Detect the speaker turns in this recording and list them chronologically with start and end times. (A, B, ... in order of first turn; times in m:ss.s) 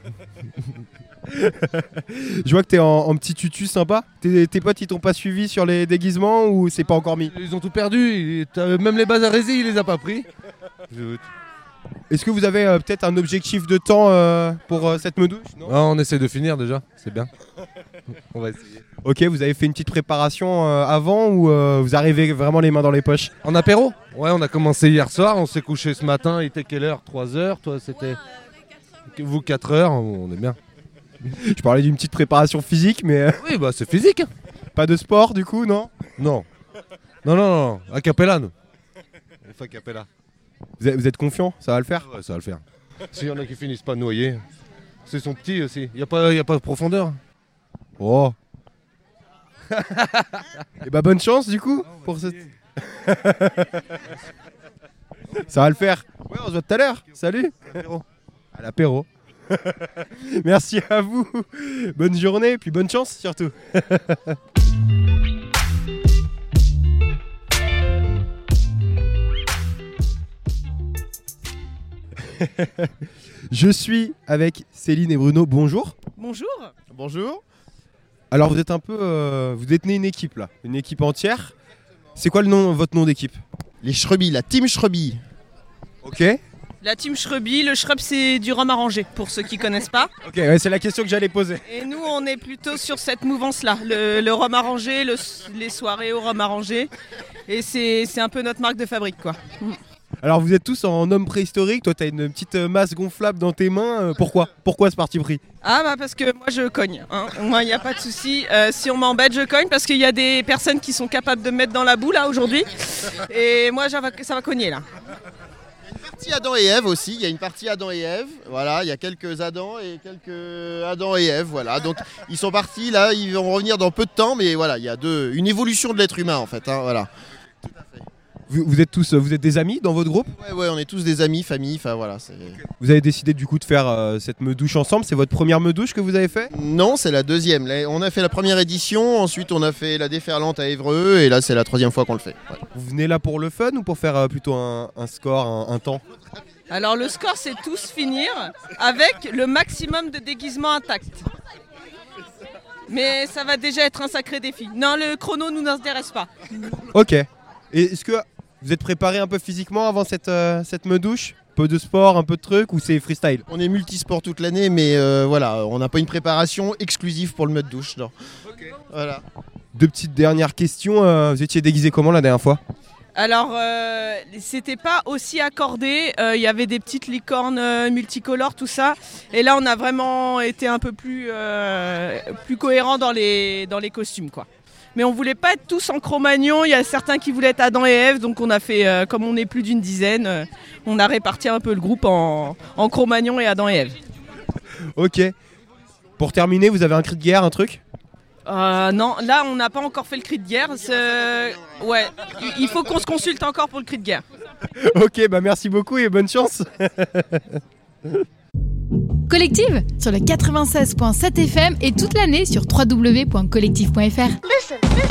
0:01.3-0:07.3 A
0:07.3-0:10.3 B
0:10.9-0:11.3 B
0:12.1-0:15.8 A
0:15.6-0:17.3 B
0:18.2-0:18.8 B
0:19.0-0:23.3 A
0:23.4-0:28.2 B
0:29.1-0:30.6 B
0:31.3-0:33.4 A
0:33.4-0:34.3 B
0:34.8-0:35.9 A
0:36.2-0:36.5 B
0:37.2-0:38.5 B
0:39.4-0:40.1 B
0:40.8-0:42.1 A
0:42.0-0:44.4 B
0:45.1-0:47.2 B
0:48.0-0:48.4 A
0:49.8-0:50.4 B
0:50.8-0:53.9 A
0:55.3-0:57.9 A
0:58.6-1:04.4 A
1:12.2-1:12.9 A
1:13.5-1:16.0 A
1:16.2-1:16.7 C
1:16.9-1:17.4 D
1:18.3-1:21.5 A
1:22.2-1:23.4 A
1:23.8-1:25.2 D
1:26.0-1:26.4 A
1:26.8-1:30.1 C
1:30.2-1:31.6 A
1:31.7-1:36.9 C
1:37.5-1:39.8 C
1:40.2-1:45.4 A
1:45.6-1:54.8 C
1:55.9-2:07.1 D
2:07.7-2:08.0 D
2:08.5-2:10.3 A
2:10.3-2:12.6 D
2:12.8-2:16.5 A
2:16.5-2:22.6 D
2:22.7-2:26.0 A
2:26.7-2:31.3 C
2:32.9-2:36.3 C
2:36.9-2:43.4 A
2:43.5-2:48.1 D
2:48.8-2:49.2 D
2:49.7-2:52.6 A
2:53.2-3:14.0 C
3:14.9-3:15.3 A
3:16.2-3:17.8 A
3:18.5-3:24.2 C
3:24.8-3:27.6 A
3:29.3-3:34.4 E